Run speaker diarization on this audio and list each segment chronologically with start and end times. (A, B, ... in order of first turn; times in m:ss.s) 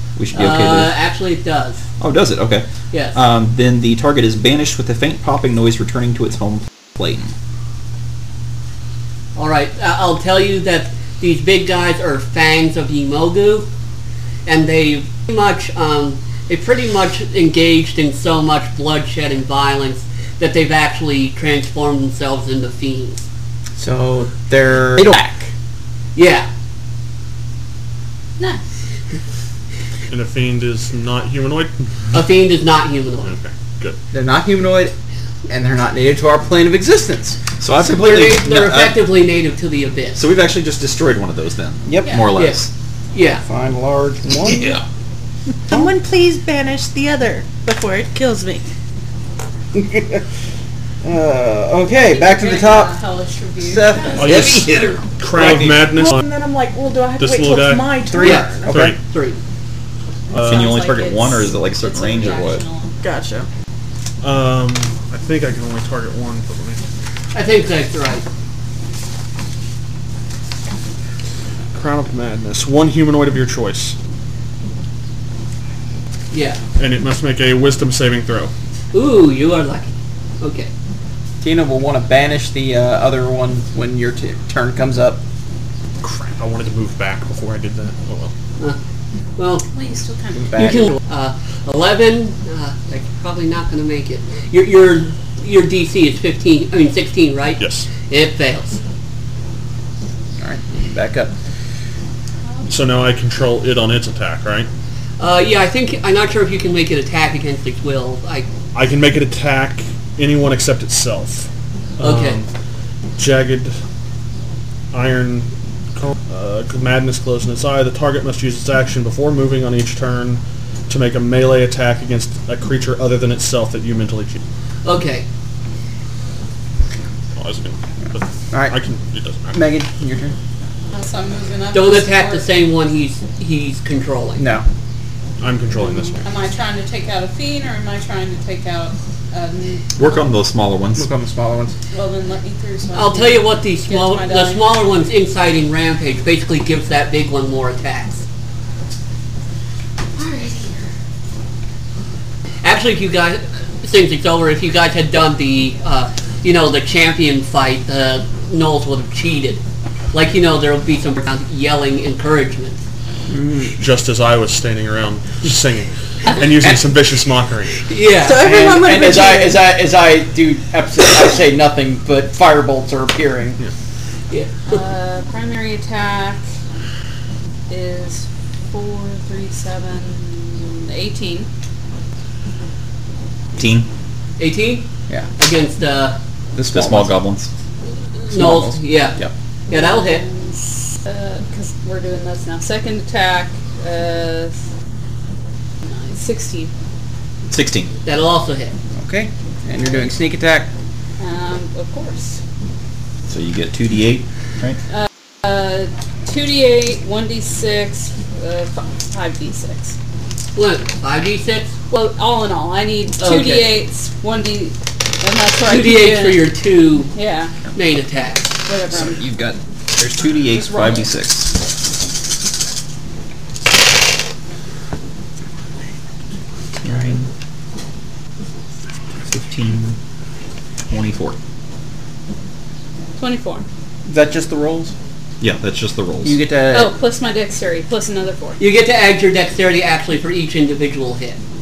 0:00.2-0:00.9 A
0:00.3-0:01.8 B
0:02.0-0:07.3 A
0:02.9-0:03.2 B
0:09.4-0:13.7 B
0:14.4-0:23.2 B
0:23.8-0:25.5 C
0:26.2-0:26.5 B
0:30.1-0:31.7 D
0:32.1-0:33.3 B
0:33.2-0:34.0 D
0:34.1-0:34.9 C
0:35.5-0:37.4 C
0:37.6-0:39.0 A
0:37.8-0:40.2 B
0:40.1-0:42.7 A
0:41.8-0:42.2 C
0:42.3-0:42.6 B
0:43.1-0:43.4 B
0:43.4-0:44.8 C
0:44.5-0:44.8 A
0:45.7-0:48.7 E
0:49.7-0:50.2 C
0:51.0-0:53.0 C
0:51.9-0:54.3 F
0:53.6-0:54.9 C
0:54.2-0:56.3 D
0:54.2-0:55.8 A
0:55.7-0:58.8 E
0:57.2-0:58.0 D
0:58.1-0:58.9 C
0:58.2-0:59.4 B
0:58.6-0:59.0 D
1:00.3-1:00.7 D
1:00.3-1:02.6 A
1:00.4-1:02.9 F
1:03.0-1:03.5 E
1:04.2-1:06.8 D
1:07.3-1:08.2 B
1:11.7-1:14.0 D
1:16.3-1:16.6 B
1:16.8-1:18.5 D
1:18.9-1:20.7 B
1:21.4-1:25.2 C
1:26.0-1:28.3 D
1:29.4-1:29.6 B
1:29.7-1:30.9 F
1:30.3-1:30.9 C
1:30.6-1:38.8 B
1:37.6-1:37.9 D
1:40.4-1:41.3 C
1:42.7-1:44.7 D
1:45.2-1:48.5 B
1:48.7-1:51.5 D
1:52.0-1:52.5 D
1:52.0-1:52.4 B
1:53.2-1:53.8 D
1:54.9-2:04.4 D
2:04.8-2:05.2 B
2:07.4-2:09.6 D
2:08.5-2:08.8 C
2:09.5-2:10.4 C
2:10.9-2:12.4 F
2:11.7-2:14.4 B
2:14.4-2:14.6 C
2:15.4-2:16.2 D
2:16.0-2:20.2 F
2:20.0-2:21.1 A
2:21.0-2:21.7 C
2:21.9-2:24.8 F
2:22.9-2:28.2 B
2:30.2-2:30.8 F
2:32.6-2:42.8 B
2:43.3-2:43.8 C
2:43.8-2:47.8 D
2:47.8-2:48.4 B
2:48.2-2:49.6 E
2:48.4-2:53.6 C
2:54.3-2:54.8 B
2:54.7-2:56.4 F
2:57.7-3:01.5 F
3:03.6-3:03.9 A
3:04.4-3:06.2 B
3:06.5-3:07.2 C
3:06.7-3:07.5 A
3:08.2-3:10.2 B
3:08.3-3:09.3 C
3:09.7-3:14.6 F
3:15.8-3:16.7 F
3:17.5-3:17.9 A
3:18.0-3:18.8 B
3:19.0-3:20.7 C
3:21.2-3:22.4 F
3:23.3-3:24.8 A
3:25.4-3:30.0 F
3:30.5-3:31.8 B
3:31.9-3:36.5 F
3:33.2-3:33.7 B
3:35.6-3:37.1 B
3:37.1-3:37.5 F
3:37.7-3:38.6 B
3:38.6-3:39.3 F
3:38.9-3:41.6 A
3:46.8-3:47.3 A
3:49.3-3:50.0 A
3:50.9-3:51.4 A
3:53.2-3:53.6 F
3:54.0-3:54.9 C
3:55.4-3:56.4 A
3:56.2-3:56.9 C
3:56.7-3:58.6 F
3:58.6-4:01.4 B